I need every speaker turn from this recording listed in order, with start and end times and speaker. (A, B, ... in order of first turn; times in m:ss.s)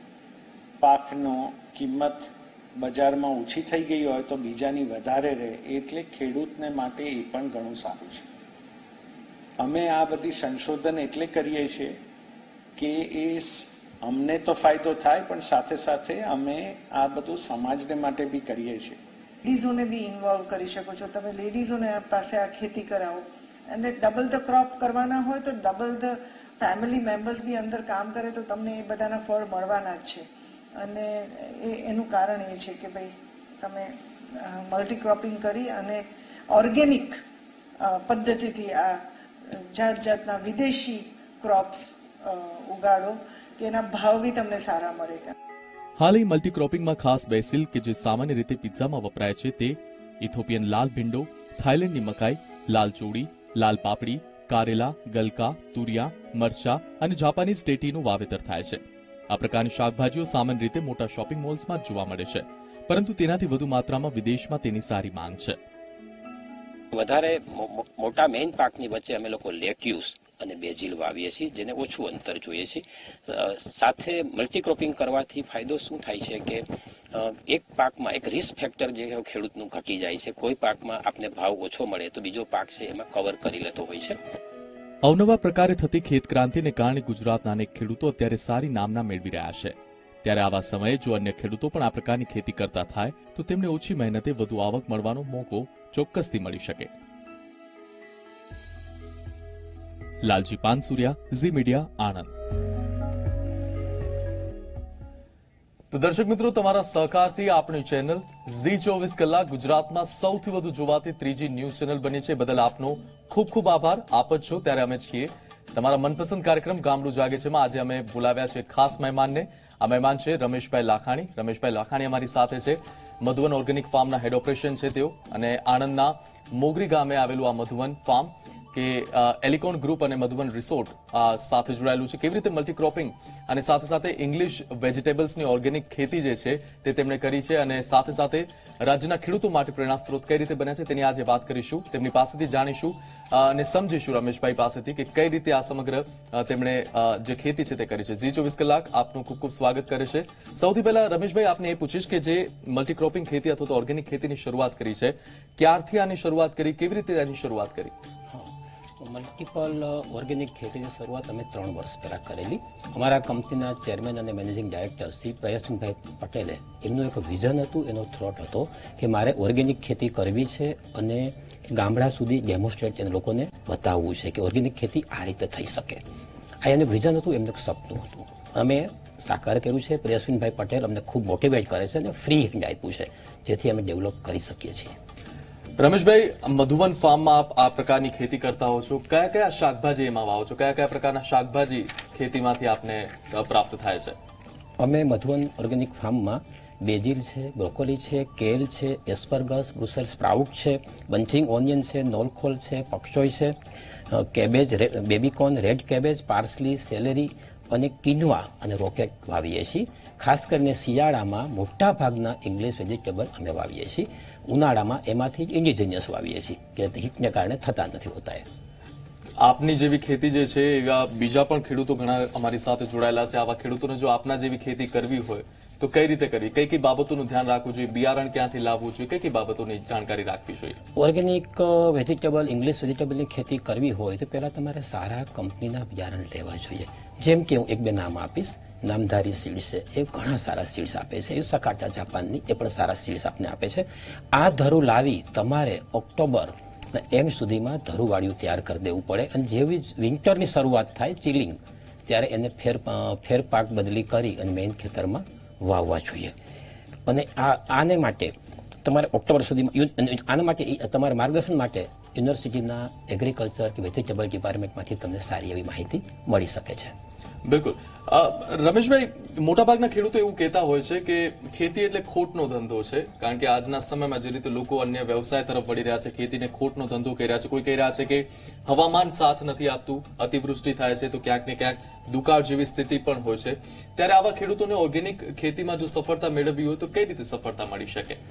0:00.8-0:08.3 A
0:09.6-0:12.0 A
0:12.8-0:19.0 A
0:19.4-0:37.2 B
0:37.8-0:45.3 B
0:46.0-1:05.6 C
1:06.9-1:24.2 D
1:25.0-1:36.9 C
1:40.2-1:42.3 C
1:45.9-2:37.9 C
2:38.3-2:56.0 D
2:56.6-3:05.0 D
3:05.8-3:14.2 C
3:14.8-3:23.6 D
3:24.1-3:38.5 D
3:39.4-3:50.8 C
3:51.0-4:16.4 D
4:17.1-4:26.9 D
4:27.5-4:48.2 C